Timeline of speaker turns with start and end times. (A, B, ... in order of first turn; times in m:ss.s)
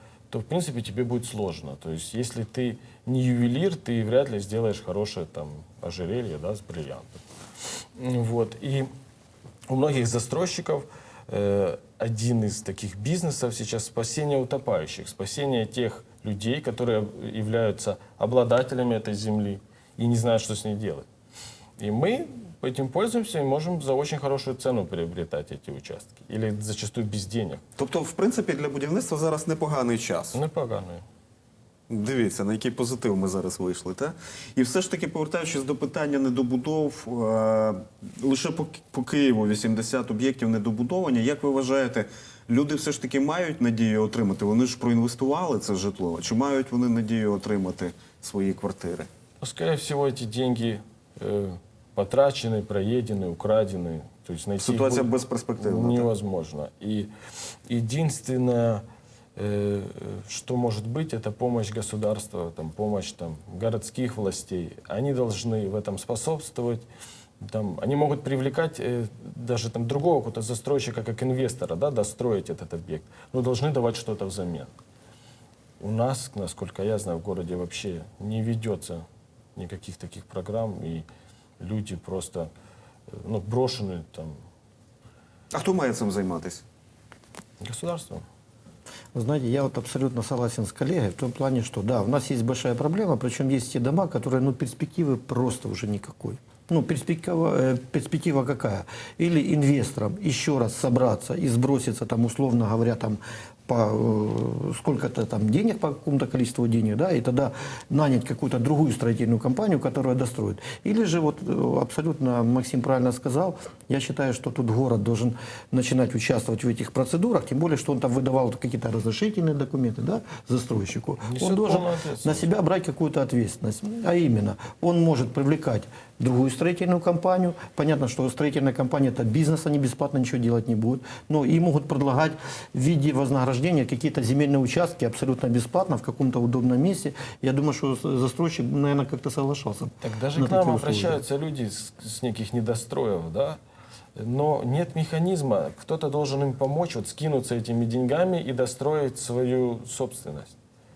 0:00.3-0:07.2 A
0:08.0-0:08.9 A
0:09.7-0:21.0 A
0:21.8-0:27.6 A
0:27.8-0:30.4 B
0:30.3-0:31.0 A
0:31.9-0:49.1 B
0:49.4-0:57.1 A
0:54.6-0:56.1 B
0:57.7-0:58.8 A
0:59.4-1:06.8 A
1:07.4-1:14.7 A
1:15.8-1:19.0 A
1:19.6-1:21.0 A
1:21.6-1:22.5 A
1:23.2-1:24.4 A
1:25.5-1:26.6 B
1:27.6-1:28.2 A
1:29.1-2:21.2 C
2:01.2-2:02.5 A
2:20.0-2:23.6 A
2:24.2-2:30.6 A